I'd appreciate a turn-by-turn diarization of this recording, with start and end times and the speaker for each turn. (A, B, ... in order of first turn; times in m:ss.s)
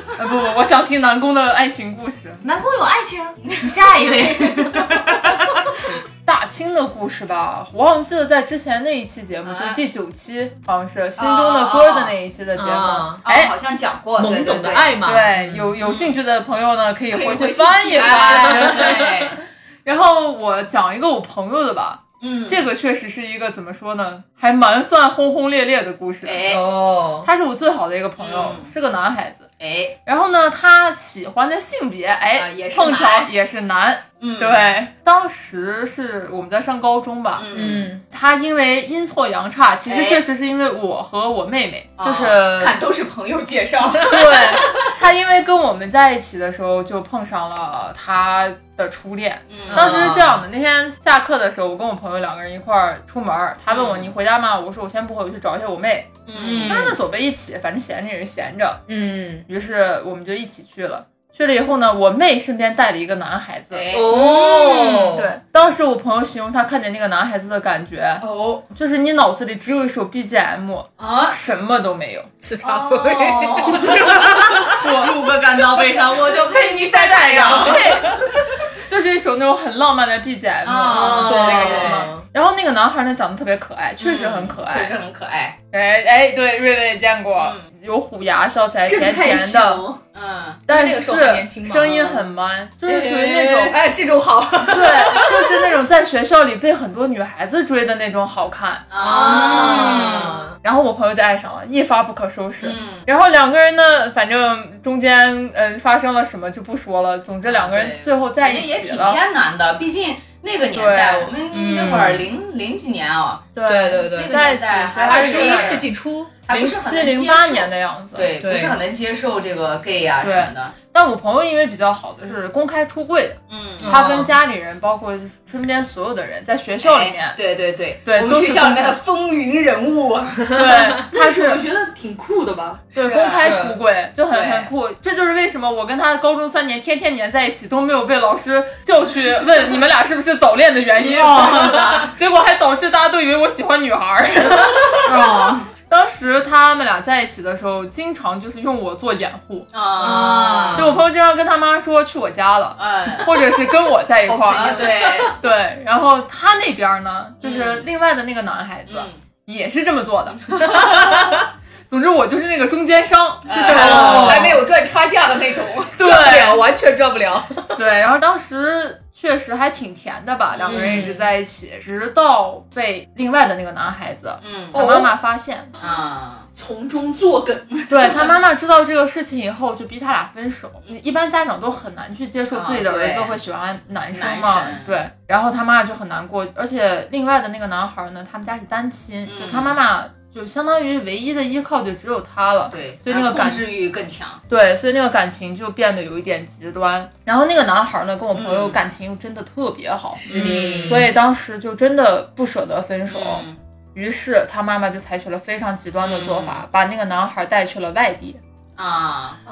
0:00.2-0:02.4 A
0:02.4-0:05.8 B
0:03.4-0:05.1 C
0:06.2-0:13.5 A
0:09.4-0:09.8 C
0:11.2-0:12.2 C
0:12.6-0:13.2 D
0:13.2-0:15.0 C
0:14.2-0:15.8 D
0:15.0-0:19.1 A
0:15.8-0:16.1 C
0:17.1-0:19.4 C
0:18.0-0:19.2 D
0:19.8-0:26.5 A
0:22.2-0:22.6 C
0:26.2-0:26.6 C
0:26.4-0:27.3 D
0:27.2-0:29.5 A
0:28.2-0:28.7 C
0:29.6-0:30.0 C
0:30.0-0:37.5 A
0:32.3-0:33.3 C
0:34.2-0:34.7 C
0:37.4-0:37.9 C
0:37.5-0:38.0 D
0:38.0-0:42.8 A
0:39.9-0:40.2 C
0:42.0-0:44.8 C
0:44.0-0:58.8 A
0:49.5-0:50.4 C
0:49.7-0:50.3 D
0:53.7-0:54.1 C
0:56.3-0:56.8 C
0:56.4-0:57.0 D
0:58.9-0:59.4 D
0:59.5-1:03.9 A
1:03.7-1:05.2 C
1:03.9-1:05.3 D
1:05.1-1:12.3 A
1:08.2-1:08.6 C
1:11.0-1:11.6 C
1:12.4-1:14.8 D
1:12.6-1:14.0 C
1:13.8-1:17.5 B
1:14.8-1:15.2 A
1:16.4-1:18.0 C
1:16.5-1:18.2 A
1:18.8-1:24.9 A
1:20.6-1:22.1 C
1:20.9-1:22.2 D
1:24.0-1:25.6 C
1:25.7-1:29.8 A
1:27.4-1:27.6 C
1:28.9-1:30.0 E
1:30.0-1:30.6 C
1:30.7-1:33.8 A
1:30.7-1:32.3 D
1:32.9-1:35.5 D
1:34.7-1:49.2 A
1:38.9-1:40.4 C
1:39.0-1:40.5 D
1:42.6-1:43.0 C
1:47.4-1:55.8 C
1:50.7-1:51.3 A
1:51.5-1:52.3 D
1:53.5-1:55.8 A
1:53.6-1:54.4 D
1:55.1-1:56.3 D
1:56.4-2:00.7 C
1:56.5-1:58.3 A
1:58.4-1:58.8 D
2:00.2-2:07.4 A
2:03.5-2:04.0 C
2:03.8-2:04.3 D
2:06.8-2:10.7 C
2:08.0-2:09.0 A
2:10.5-2:11.6 A
2:11.1-2:12.8 E
2:12.7-2:13.6 C
2:12.9-2:25.1 A
2:13.3-2:13.8 D
2:14.3-2:14.7 C
2:21.1-2:22.1 C
2:21.1-2:21.7 B
2:25.0-2:25.6 B
2:25.9-2:29.7 A
2:29.7-2:31.0 C
2:30.0-2:30.9 D
2:30.0-2:30.8 B
2:30.7-2:41.3 A
2:32.8-2:33.3 C
2:34.3-2:35.3 E
2:34.5-2:35.4 C
2:37.4-2:37.9 C
2:38.9-2:39.2 C
2:40.5-2:41.1 C
2:41.9-2:44.5 A
2:43.4-2:46.0 C
2:43.6-2:44.7 D
2:43.8-2:44.5 B
2:46.0-2:46.6 A
2:46.0-2:47.7 D
2:47.8-2:55.7 A
2:50.6-2:51.3 C
2:50.7-2:51.1 D
2:54.4-2:55.0 C
2:55.8-2:56.5 C
2:56.6-2:57.7 E
2:57.9-3:13.7 A
3:02.5-3:03.4 C
3:04.1-3:05.0 C
3:09.2-3:09.8 C
3:12.7-3:14.4 C
3:14.5-3:28.4 A
3:18.3-3:18.8 C
3:20.2-3:21.1 C
3:20.3-3:21.1 D
3:23.1-3:23.6 C
3:26.0-3:26.6 C
3:28.8-3:29.4 C